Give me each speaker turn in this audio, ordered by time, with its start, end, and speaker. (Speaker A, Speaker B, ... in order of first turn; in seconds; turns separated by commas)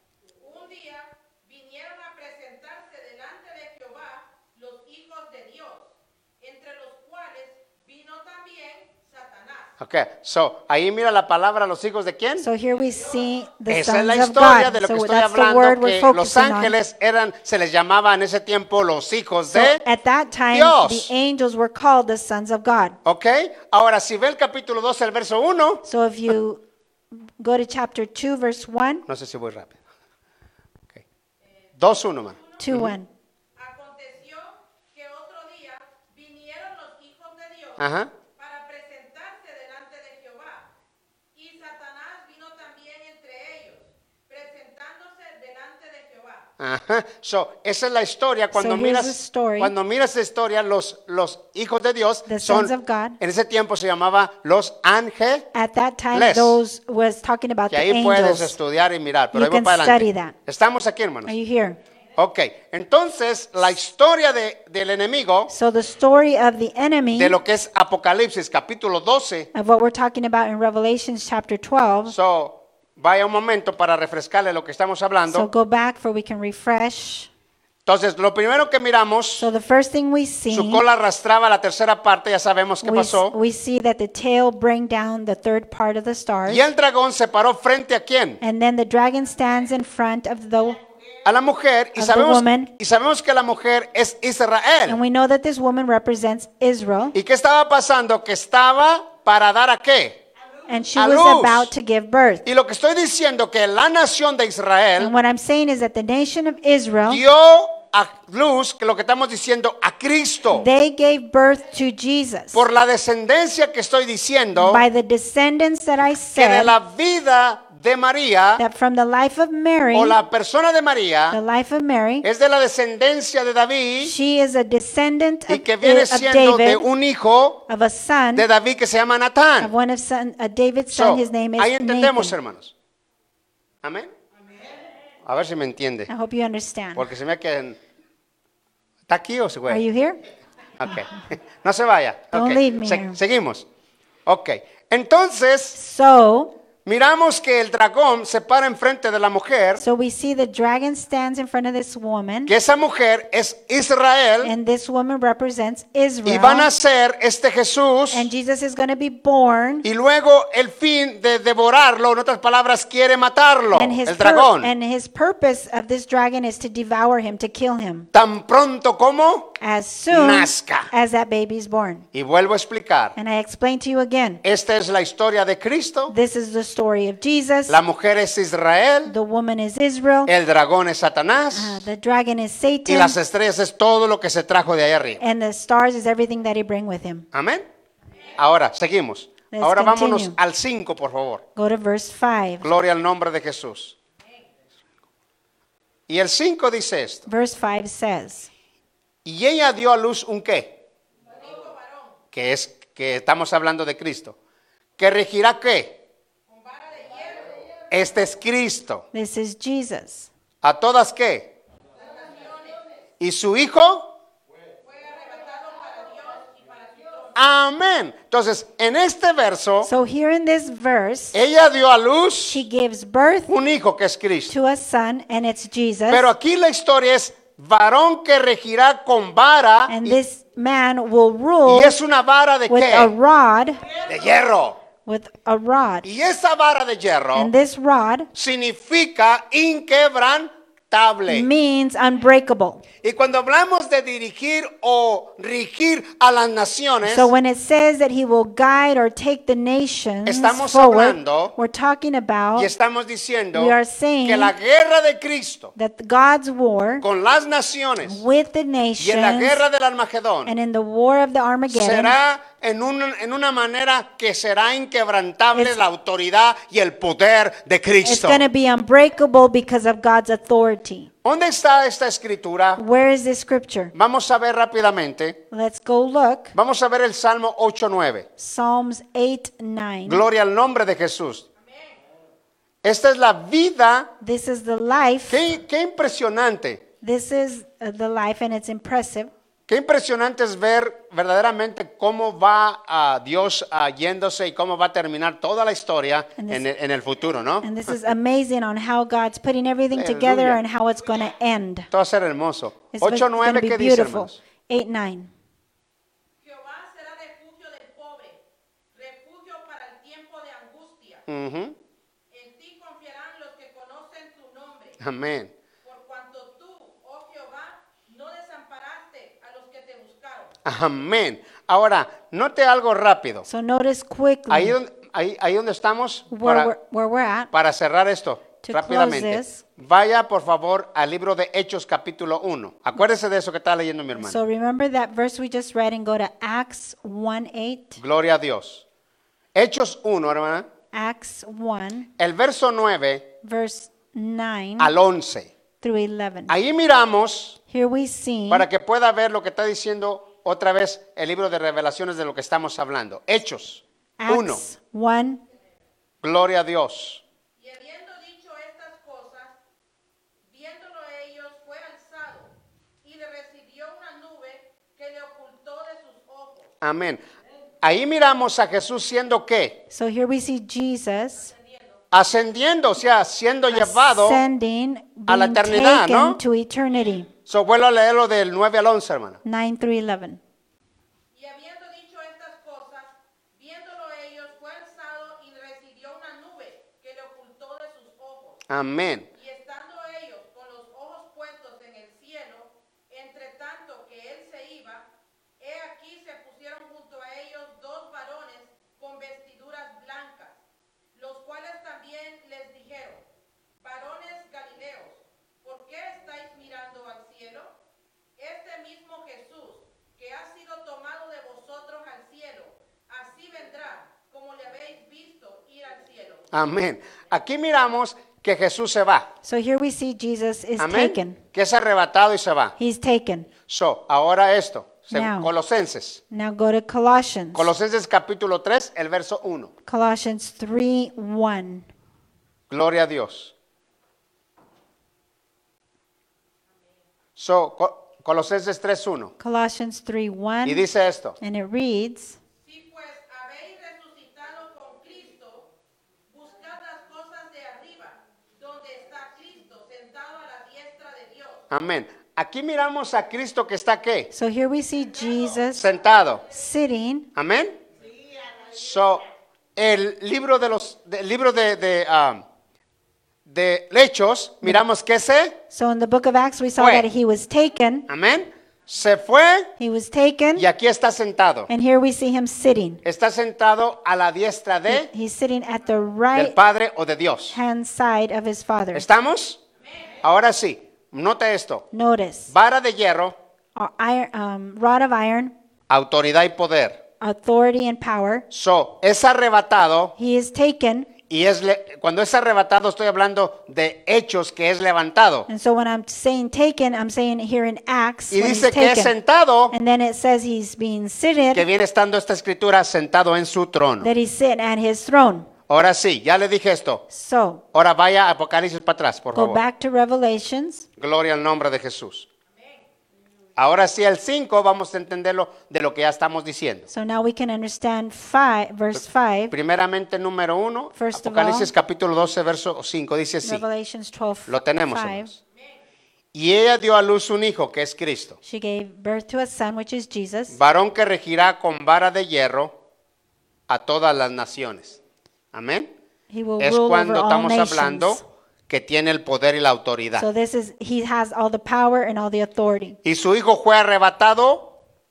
Speaker A: 0.4-9.7, Speaker B: 9.8-12.5, Speaker C: 12.4-16.7, Speaker B: 13.7-19.8, Speaker C: 19.5-23.0, Speaker B: 20.5-21.1, Speaker B: 23.0-25.9, Speaker C: 25.8-26.6, Speaker C: 27.4-29.0, Speaker B: 29.1-29.8, Speaker A: 31.7-32.6, Speaker B: 31.8-32.9, Speaker C: 32.6-33.1, Speaker A: 33.5-37.8, Speaker B: 37.8-38.1, Speaker A: 38.4-40.7, Speaker A: 41.3-46.5, Speaker B: 46.6-55.5, Speaker C: 48.5-49.7, Speaker C: 52.3-53.2, Speaker C: 55.5-58.6, Speaker B: 56.1-56.6, Speaker B: 57.7-61.3, Speaker C: 59.3-60.3, Speaker C: 61.2-61.8, Speaker B: 62.1-65.5, Speaker C: 65.5-67.3, Speaker B: 67.1-69.5, Speaker C: 69.5-72.1, Speaker B: 72.1-75.5, Speaker C: 75.3-77.3, Speaker B: 77.8-79.5, Speaker C: 79.4-80.8, Speaker B: 80.5-83.3, Speaker C: 82.8-86.7, Speaker B: 86.5-88.4, Speaker C: 88.4-90.8, Speaker B: 91.2-95.0, Speaker C: 92.0-92.7, Speaker C: 94.9-97.1, Speaker B: 97.1-100.2, Speaker C: 100.7-102.5, Speaker B: 101.0-101.7, Speaker B: 102.4-105.1, Speaker C: 105.0-107.2, Speaker B: 107.0-110.7, Speaker C: 110.5-112.6, Speaker B: 112.5-114.9, Speaker C: 114.5-116.7, Speaker B: 116.3-118.6, Speaker C: 118.6-120.2, Speaker B: 119.9-121.4, Speaker C: 121.3-122.2, Speaker B: 122.2-124.2, Speaker C: 124.0-126.9, Speaker B: 125.5-127.7, Speaker C: 127.7-128.4, Speaker B: 128.3-129.7, Speaker C: 129.6-132.3, Speaker B: 130.9-132.7, Speaker B: 133.8-134.1, Speaker B: 135.2-136.1, Speaker C: 136.1-137.1, Speaker B: 136.9-137.8, Speaker B: 139.1-139.8, Speaker C: 139.7-140.2, Speaker B: 140.8-143.7, Speaker C: 142.3-143.2, Speaker B: 144.2-145.8, Speaker C: 145.7-146.5, Speaker B: 146.8-149.8, Speaker C: 149.8-152.5, Speaker B: 152.5-154.5, Speaker C: 154.4-156.7, Speaker B: 156.2-158.3, Speaker C: 158.1-159.8, Speaker B: 159.8-164.7, Speaker C: 163.7-168.1, Speaker B: 168.1-169.6, Speaker C: 169.6-172.1, Speaker B: 170.1-170.9, Speaker B: 172.1-173.2, Speaker C: 173.2-174.4, Speaker B: 174.4-176.1, Speaker C: 176.1-177.8, Speaker B: 177.7-179.1, Speaker C: 179.1-180.3, Speaker B: 180.2-181.8, Speaker C: 181.5-183.2, Speaker B: 182.8-185.2, Speaker C: 185.2-187.3, Speaker B: 187.3-187.7, Speaker B: 188.4-191.4, Speaker C: 189.5-190.4, Speaker C: 191.6-192.7, Speaker B: 192.6-193.9, Speaker B: 196.1-197.3, Speaker C: 197.3-198.5, Speaker B: 199.2-200.8, Speaker A: 201.3-202.2, Speaker B: 202.3-204.3, Speaker B: 205.0-206.0, Speaker A: 206.5-207.7, Speaker B: 207.9-209.0, Speaker C: 209.1-210.3, Speaker B: 210.6-211.6, Speaker A: 212.0-212.8, Speaker B: 213.2-214.1, Speaker A: 214.8-217.4, Speaker B: 217.3-219.9, Speaker C: 219.8-221.4, Speaker B: 221.3-222.6, Speaker C: 222.4-223.5, Speaker B: 223.5-224.5, Speaker C: 224.5-226.3, Speaker B: 226.1-230.2, Speaker C: 229.9-232.0, Speaker B: 231.7-233.1, Speaker C: 232.7-233.8, Speaker B: 234.1-234.8, Speaker C: 235.0-236.1, Speaker B: 236.0-237.5, Speaker C: 237.3-238.3, Speaker B: 238.3-241.5, Speaker C: 241.3-242.8, Speaker B: 243.0-247.3, Speaker C: 247.0-252.7, Speaker B: 250.2-251.5, Speaker B: 252.6-255.7, Speaker C: 253.5-254.5, Speaker C: 255.8-257.0, Speaker B: 257.0-258.2, Speaker C: 258.0-259.6, Speaker B: 259.0-260.5, Speaker C: 260.4-262.2, Speaker B: 261.7-268.5, Speaker C: 268.0-271.1, Speaker B: 271.2-272.8, Speaker C: 272.8-273.9, Speaker B: 273.9-275.4, Speaker C: 275.5-276.5, Speaker B: 276.5-278.3, Speaker C: 278.4-280.2, Speaker B: 280.1-281.4, Speaker A: 281.6-282.0, Speaker B: 282.8-284.1, Speaker C: 284.2-285.4, Speaker B: 285.3-286.8, Speaker C: 287.0-289.3, Speaker B: 289.7-297.9, Speaker C: 296.4-296.6, Speaker C: 297.6-301.9, Speaker B: 299.9-300.6, Speaker B: 301.9-304.4, Speaker C: 302.9-305.3, Speaker A: 306.4-308.4, Speaker A: 308.9-311.2, Speaker B: 311.3-311.8, Speaker A: 312.3-315.0, Speaker B: 315.0-315.5, Speaker A: 315.8-320.5, Speaker B: 320.6-323.4, Speaker C: 323.4-324.8, Speaker B: 324.5-326.7, Speaker C: 326.3-327.5, Speaker B: 327.5-334.4, Speaker C: 328.6-329.6, Speaker C: 334.2-338.0, Speaker B: 338.0-338.8, Speaker B: 339.5-340.6, Speaker C: 340.9-342.1, Speaker B: 342.2-343.3, Speaker C: 343.4-344.9, Speaker B: 344.8-345.5, Speaker C: 345.8-346.5, Speaker B: 346.5-347.6, Speaker C: 347.7-348.7, Speaker B: 348.5-354.6, Speaker C: 354.2-355.4, Speaker B: 356.2-357.2, Speaker A: 357.6-359.6, Speaker A: 360.5-362.5, Speaker A: 363.0-366.7, Speaker B: 366.8-367.2, Speaker B: 367.8-369.8, Speaker C: 369.9-371.5, Speaker A: 371.5-371.9, Speaker B: 372.1-374.4, Speaker C: 373.7-377.3, Speaker B: 375.3-376.4, Speaker B: 377.5-379.4, Speaker C: 379.4-380.4, Speaker A: 381.3-388.6, Speaker B: 388.7-389.3, Speaker A: 389.3-395.1, Speaker A: 395.6-400.6, Speaker A: 401.1-403.2, Speaker A: 403.8-407.7, Speaker A: 408.4-416.5, Speaker B: 416.5-419.3, Speaker C: 419.4-421.4, Speaker B: 420.8-422.7, Speaker C: 422.8-423.5, Speaker B: 423.7-426.2, Speaker C: 425.1-425.5, Speaker C: 426.3-427.7, Speaker B: 427.5-429.7, Speaker C: 429.9-431.9, Speaker B: 432.7-433.5, Speaker B: 437.4-439.3, Speaker C: 439.4-440.8, Speaker B: 440.6-441.4, Speaker C: 441.4-442.4, Speaker A: 442.6-445.7, Speaker A: 446.3-451.6, Speaker B: 451.7-454.3, Speaker C: 454.3-455.8, Speaker B: 455.7-456.4, Speaker C: 456.5-457.3, Speaker B: 457.3-457.8, Speaker B: 458.7-459.2, Speaker B: 459.8-462.4, Speaker B: 463.4-465.6, Speaker C: 465.7-468.1, Speaker B: 466.8-467.1, Speaker B: 468.1-469.7, Speaker C: 469.8-470.6, Speaker B: 470.6-471.7, Speaker C: 471.7-473.0, Speaker B: 473.0-475.1, Speaker C: 474.9-476.6, Speaker B: 476.3-477.6, Speaker C: 477.5-479.0, Speaker B: 478.9-479.6, Speaker B: 480.2-481.9, Speaker C: 481.9-482.5, Speaker B: 482.5-483.4, Speaker C: 483.8-485.5, Speaker B: 485.9-487.0, Speaker C: 487.2-488.4, Speaker B: 488.5-490.1, Speaker C: 490.2-491.1, Speaker B: 491.3-495.5, Speaker C: 495.5-499.1, Speaker B: 498.3-499.7, Speaker C: 499.7-501.6, Speaker B: 501.5-504.1, Speaker C: 504.0-505.5, Speaker B: 505.7-507.1, Speaker C: 507.1-507.6, Speaker B: 507.7-509.6, Speaker C: 509.3-510.9, Speaker B: 511.0-512.3, Speaker A: 512.5-512.8, Speaker B: 513.5-516.9, Speaker C: 516.9-519.5, Speaker B: 519.5-523.6, Speaker C: 520.9-521.7, Speaker C: 523.4-525.3, Speaker B: 524.5-525.4, Speaker B: 526.3-528.4, Speaker C: 528.4-530.6, Speaker B: 530.5-532.8, Speaker B: 533.7-535.0, Speaker B: 535.5-535.9, Speaker C: 536.3-538.2, Speaker B: 536.6-540.2, Speaker C: 540.2-543.0, Speaker B: 543.0-544.7